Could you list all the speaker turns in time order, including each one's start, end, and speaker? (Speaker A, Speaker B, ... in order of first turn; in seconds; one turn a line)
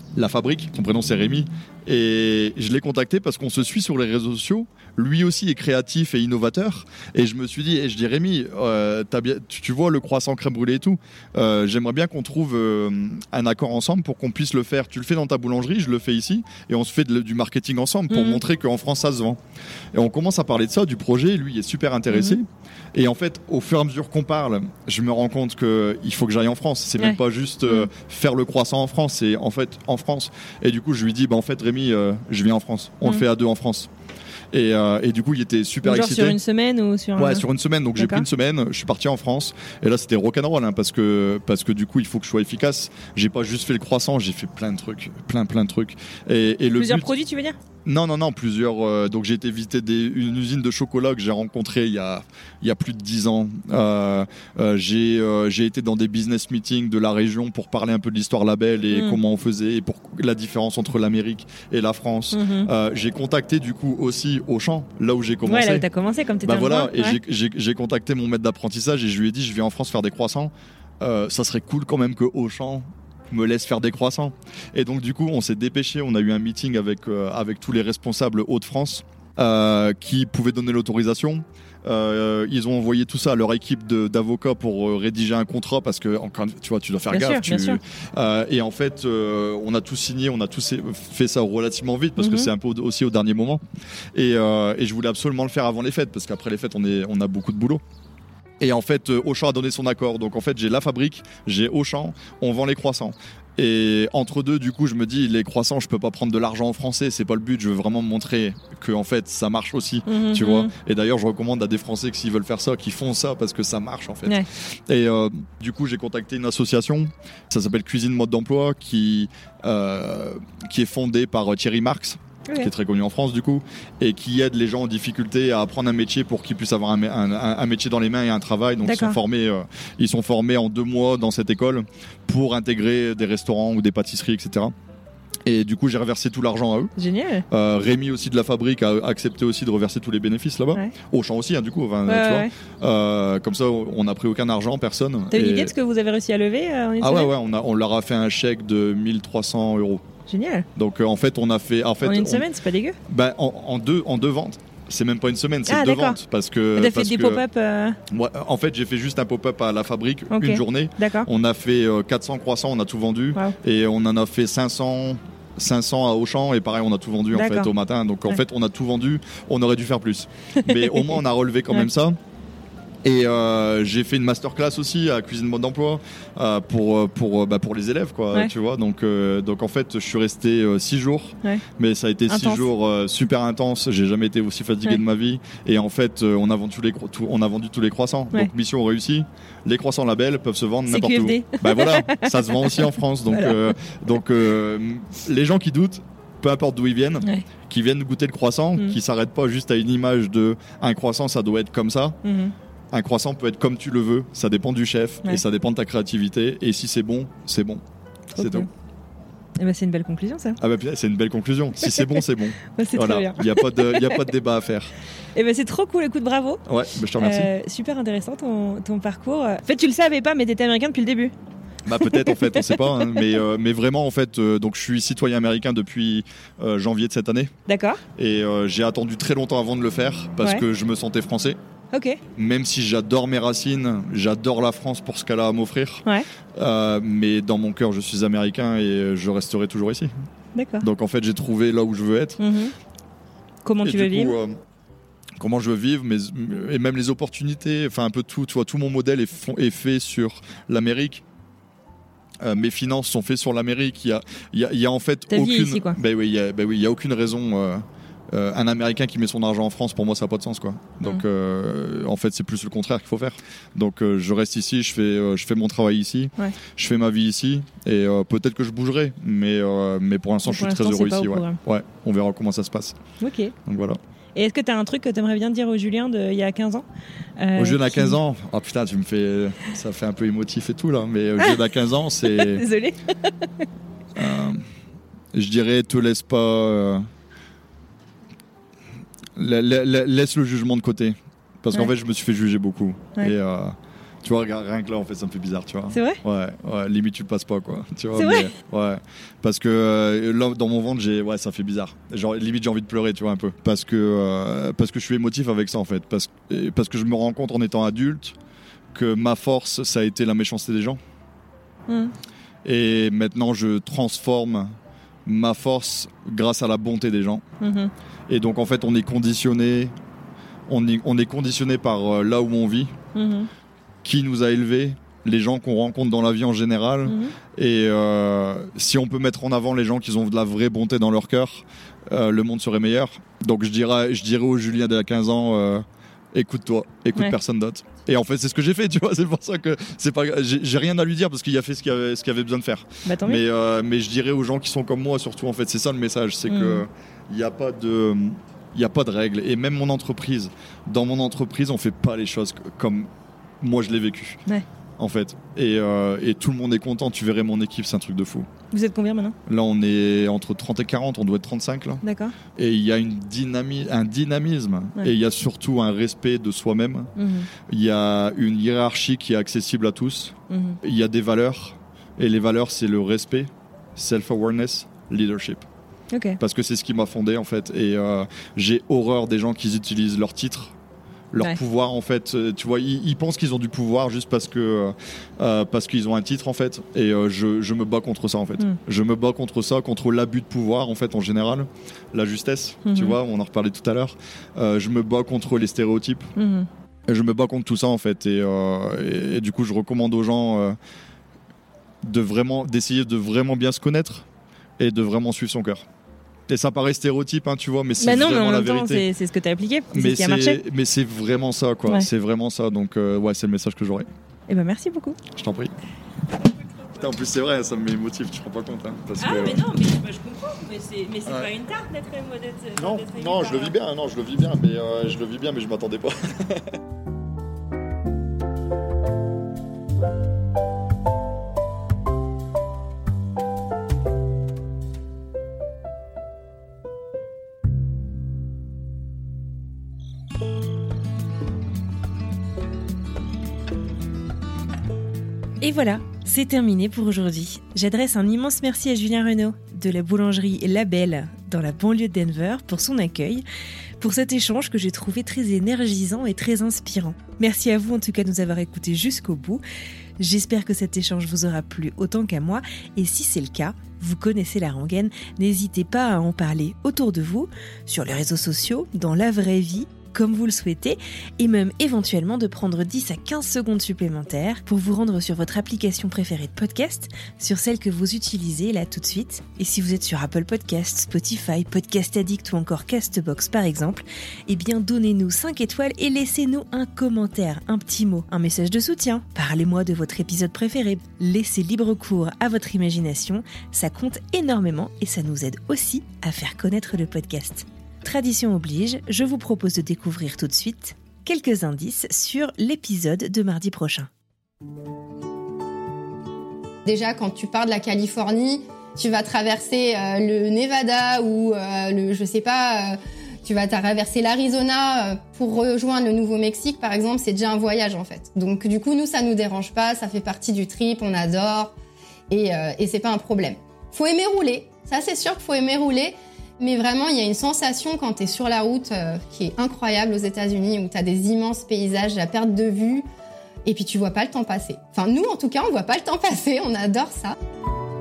Speaker A: 0.1-19.4
Speaker B: 18.1-18.4
Speaker A: 19.9-33.9
Speaker B: 22.1-22.4
Speaker B: 27.0-27.9
Speaker A: 34.5-36.4
Speaker B: 35.9-37.5
Speaker A: 37.2-47.1
Speaker B: 38.0-38.2
Speaker B: 46.8-47.6
Speaker A: 47.9-65.9
Speaker B: 58.9-59.2
Speaker B: 62.3-62.7
Speaker B: 65.5-67.2
Speaker A: 66.4-93.6
Speaker B: 87.1-87.8
Speaker B: 92.2-92.5
Speaker A: 94.2-97.8
Speaker A: 98.6-134.7
Speaker B: 110.1-110.7
Speaker B: 128.8-129.2
Speaker A: 135.5-136.9
Speaker B: 137.0-137.4
Speaker A: 137.5-145.7
Speaker B: 142.1-142.5
Speaker B: 145.3-147.3
Speaker A: 147.0-150.1
Speaker B: 150.3-150.7
Speaker A: 150.8-152.4
Speaker B: 152.0-153.0
Speaker A: 153.1-157.4
Speaker B: 155.7-156.2
Speaker B: 156.8-158.0
Speaker A: 158.1-172.2
Speaker B: 160.3-161.3
Speaker B: 167.3-167.7
Speaker B: 170.7-171.2
Speaker A: 173.0-202.2
Speaker B: 182.3-182.7
Speaker B: 190.9-193.7
Speaker B: 202.2-202.5
Speaker A: 202.9-207.8
Speaker A: 208.3-208.7
Speaker B: 208.4-208.7
Speaker B: 209.6-210.6
Speaker A: 210.6-214.9
Speaker B: 211.9-212.2
Speaker B: 212.7-214.2
Speaker B: 215.3-216.6
Speaker A: 216.7-217.5
Speaker B: 217.2-221.3
Speaker A: 221.9-227.5
Speaker B: 222.0-223.3
Speaker B: 227.7-228.0
Speaker A: 228.2-231.6
Speaker B: 231.9-232.2
Speaker A: 232.3-236.0
Speaker A: 236.6-240.1
Speaker B: 240.6-240.9
Speaker A: 240.8-242.4
Speaker B: 242.4-242.7
Speaker B: 243.7-244.4
Speaker A: 243.8-244.6
Speaker A: 245.4-251.2
Speaker A: 252.4-273.0
Speaker B: 255.3-256.0
Speaker B: 270.5-271.6
Speaker B: 273.2-273.5
Speaker A: 273.7-274.0
Speaker B: 274.4-276.9
Speaker B: 277.4-278.2
Speaker A: 277.6-282.7
Speaker B: 282.2-283.7
Speaker A: 284.2-284.6
Speaker A: 285.3-287.1
Speaker A: 289.4-308.4
Speaker B: 295.9-296.2
Speaker B: 298.1-298.5
Speaker A: 308.9-311.0
Speaker B: 311.9-312.1
Speaker A: 312.6-317.4
Speaker B: 317.6-317.9
Speaker A: 318.3-319.9
Speaker A: 320.7-322.9
Speaker B: 323.1-323.5
Speaker A: 324.0-353.1
Speaker B: 327.1-327.3
Speaker B: 343.1-343.4
Speaker B: 346.5-346.9
Speaker A: 353.6-354.4
Speaker A: 355.0-358.5
Speaker B: 358.7-359.4
Speaker A: 359.5-362.0
Speaker B: 362.0-362.4
Speaker A: 362.6-367.1
Speaker B: 367.2-367.5
Speaker A: 367.7-375.6
Speaker B: 370.5-370.8
Speaker B: 376.1-376.4
Speaker A: 376.4-380.8
Speaker A: 381.3-396.3
Speaker B: 392.9-393.2
Speaker B: 396.4-396.7
Speaker A: 397.1-400.8
Speaker A: 402.0-404.3
Speaker A: 404.8-405.9
Speaker A: 406.5-409.1
Speaker B: 408.0-410.6
Speaker A: 409.9-414.1
Speaker B: 414.5-415.2
Speaker A: 415.3-415.7
Speaker A: 416.9-419.7
Speaker B: 419.2-423.7
Speaker A: 422.8-426.8
Speaker C: 445.6-453.4
Speaker C: 454.0-459.6
Speaker C: 460.2-504.1
Speaker D: 506.9-521.7
Speaker D: 522.3-533.1
Speaker D: 533.6-537.4